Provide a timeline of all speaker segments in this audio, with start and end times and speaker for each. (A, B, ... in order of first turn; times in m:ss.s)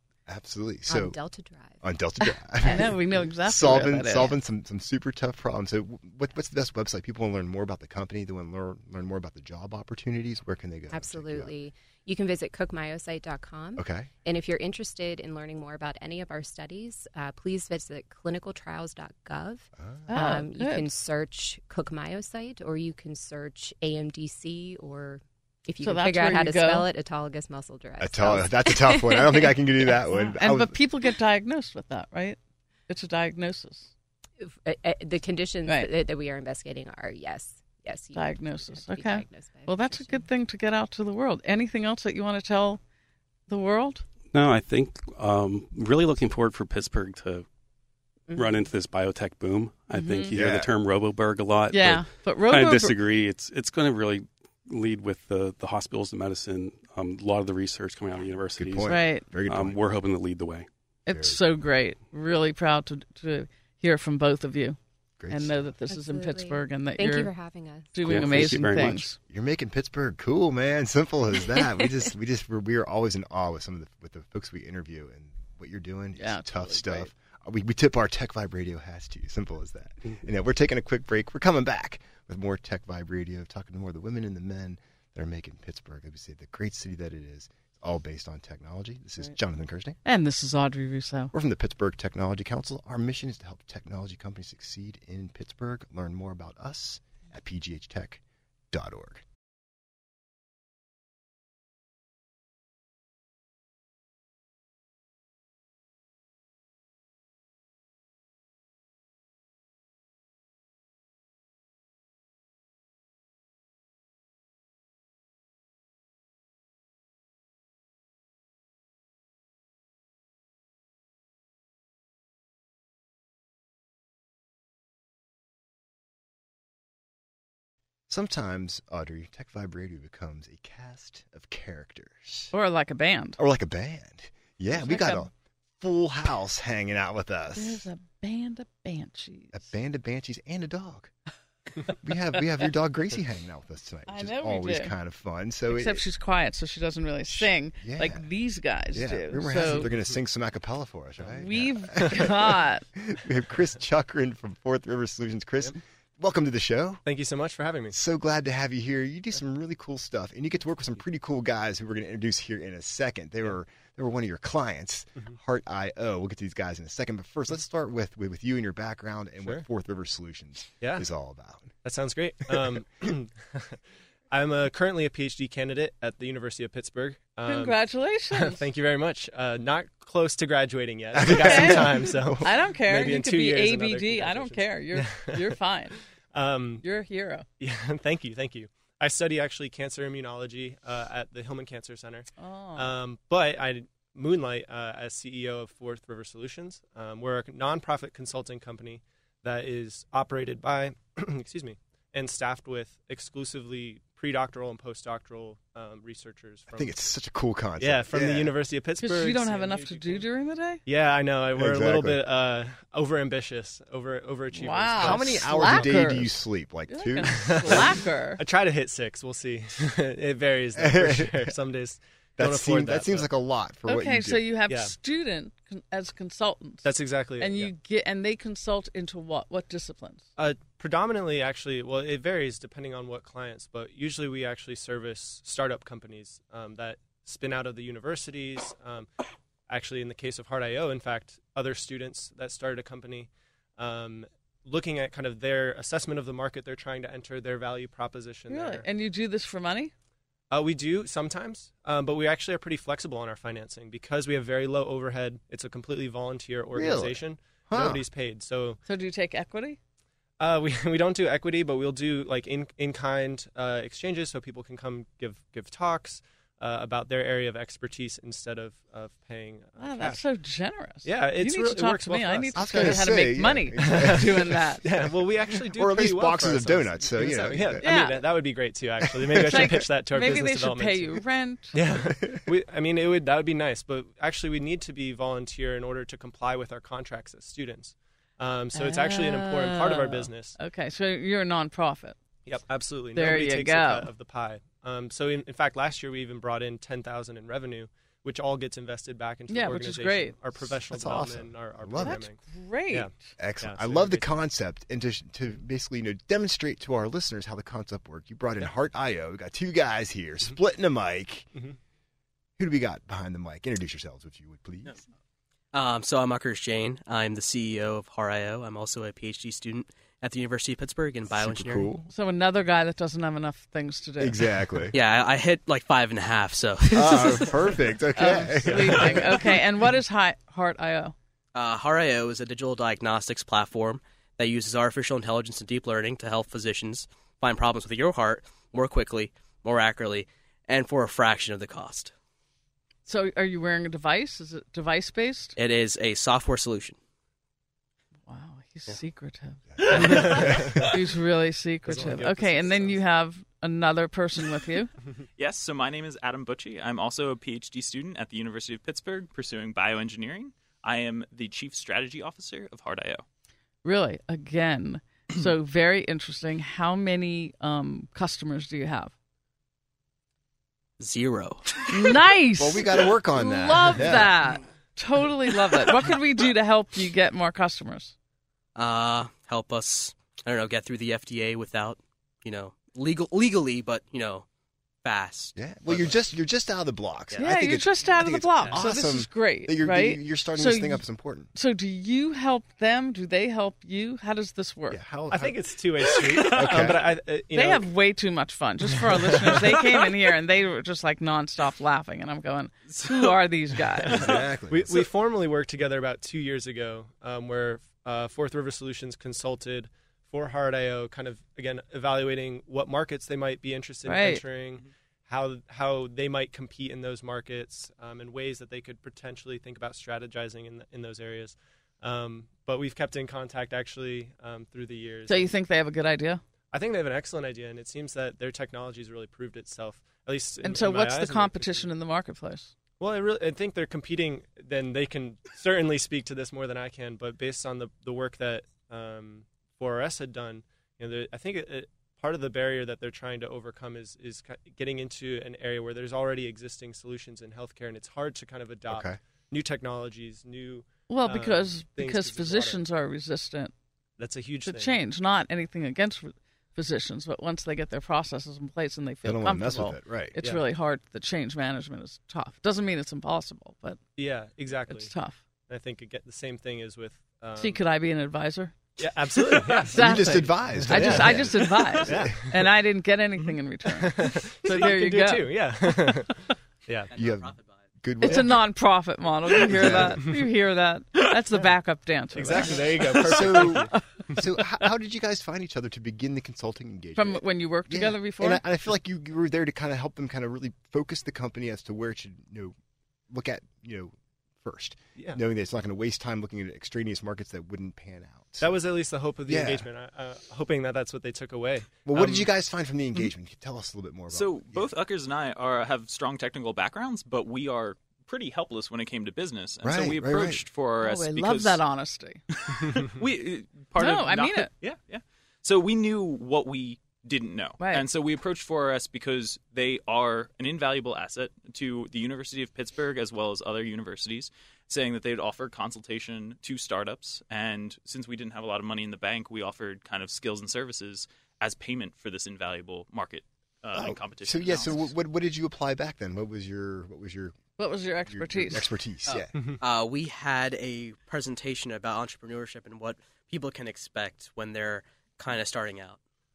0:00.3-0:01.2 A
0:00.9-0:01.9 B
0:01.8-0:11.5 A
0:02.6-0:04.4 C
0:10.9-0:29.9 B
0:13.8-0:14.1 A
0:19.8-0:20.1 A
0:20.1-0:20.9 C
0:25.8-0:26.9 C
0:28.0-0:30.8 A
0:30.2-0:33.9 C
0:34.4-0:40.3 B
0:35.6-0:35.9 C
0:38.2-0:42.8 C
0:43.5-0:44.0 C
0:44.3-0:47.4 D
0:48.3-0:48.6 B
0:48.3-1:00.7 D
0:49.9-0:50.3 C
0:50.3-0:50.7 A
0:51.7-0:53.0 C
0:58.6-0:59.8 A
0:58.9-0:59.2 C
1:01.0-1:07.3 C
1:01.1-1:01.4 A
1:05.2-1:05.7 A
1:05.9-1:08.3 B
1:07.9-1:09.2 C
1:08.0-1:09.1 D
1:09.3-1:30.0 A
1:16.2-1:17.1 C
1:30.0-1:31.3 C
1:31.3-1:39.2 A
2:08.1-2:12.5 A
2:12.5-2:13.4 C
2:13.4-2:17.9 A
2:14.7-2:15.3 C
2:17.6-2:19.7 C
2:19.5-2:21.1 A
2:22.0-2:26.0 A
2:24.1-2:24.9 C
2:25.7-2:29.9 C
2:27.3-2:28.3 A
2:28.9-2:37.0 A
2:31.3-2:32.8 C
2:37.0-2:38.0 E
2:37.9-2:51.7 A
2:50.8-2:51.0 E
2:51.8-3:05.6 E
2:57.4-2:58.6 C
3:01.1-3:02.5 A
3:01.3-3:06.0 C
3:06.3-3:06.8 E
3:06.8-3:07.4 C
3:07.6-3:26.9 E
3:12.4-3:12.9 C
3:26.7-3:28.5 A
3:27.8-3:30.3 E
3:29.0-3:30.8 C
3:30.8-3:35.9 E
3:31.6-3:32.2 A
3:34.5-3:36.3 C
3:35.0-3:37.9 A
3:36.9-3:38.4 C
3:37.4-3:43.3 E
3:40.7-3:41.5 A
3:42.4-3:44.4 A
3:43.8-3:50.2 C
3:44.7-3:44.9 E
3:46.8-3:47.7 E
3:50.4-3:59.1 E
3:59.7-4:08.9 E
4:08.5-4:09.9 C
4:10.5-4:18.8 E
4:16.7-4:18.0 A
4:18.8-4:19.8 C
4:20.4-4:30.2 E
4:29.8-4:34.8 C
4:31.0-4:33.0 E
4:32.5-4:37.9 A
4:33.8-4:50.6 E
4:37.8-4:38.2 C
4:39.0-4:39.7 A
4:39.4-4:41.8 C
4:48.7-4:52.2 C
4:52.4-5:04.3 E
4:53.1-4:54.1 C
4:59.5-5:00.3 C
5:00.6-5:02.2 A
5:02.0-5:03.3 C
5:03.4-5:11.5 A
5:12.6-5:15.0 A
5:15.7-5:21.9 F
5:21.3-5:22.1 A
5:22.1-5:24.5 C
5:24.2-5:24.9 A
5:24.9-5:27.8 F
5:26.9-5:29.5 A
5:28.2-5:31.2 C
5:28.7-5:29.3 E
5:31.5-5:42.1 F
5:43.1-5:45.5 C
5:45.6-5:47.0 F
5:48.3-5:54.9 C
5:49.8-5:50.8 A
5:50.2-5:50.7 E
5:51.8-5:53.0 E
5:55.4-6:03.2 G
6:03.8-6:09.1 C
6:11.0-6:11.8 F
6:11.9-6:18.1 C
6:12.6-6:14.3 A
6:18.7-6:24.4 F
6:25.0-6:26.1 F
6:25.5-6:31.5 A
6:27.4-6:35.0 C
6:34.9-6:35.6 A
6:35.3-6:37.9 E
6:36.1-6:37.0 A
6:37.5-6:44.4 C
6:39.1-6:39.6 E
6:42.9-6:43.4 G
6:44.1-7:05.5 E
6:44.1-6:45.0 A
6:54.0-6:54.4 C
7:05.3-7:06.4 C
7:06.7-7:11.9 E
7:10.6-7:12.7 C
7:13.0-7:32.8 E
7:28.9-7:29.2 A
7:31.1-7:33.7 C
7:34.2-7:34.9 E
7:34.6-7:44.0 C
7:39.2-7:40.4 A
7:40.4-7:40.6 E
7:44.2-7:45.1 E
7:44.9-7:45.4 C
7:45.7-7:47.8 E
7:47.6-7:48.8 C
7:49.0-7:52.7 E
7:49.5-7:55.5 C
7:49.8-7:52.4 A
7:53.8-7:57.1 E
7:57.1-7:57.9 F
7:57.1-7:58.6 A
7:58.2-8:04.4 C
7:58.3-7:58.5 E
7:59.7-8:00.3 A
7:59.8-8:00.4 E
8:02.3-8:04.4 E
8:02.8-8:12.7 A
8:07.2-8:08.6 C
8:13.3-8:18.8 A
8:18.6-8:22.5 E
8:19.5-8:19.9 A
8:22.0-8:24.9 A
8:24.3-8:31.8 G
8:29.8-8:30.6 A
8:31.0-8:32.4 C
8:32.5-8:55.2 G
8:33.9-8:34.7 C
8:37.8-8:38.1 C
8:53.9-8:57.6 A
8:57.8-8:58.9 C
8:58.2-8:59.5 A
8:59.3-9:06.2 F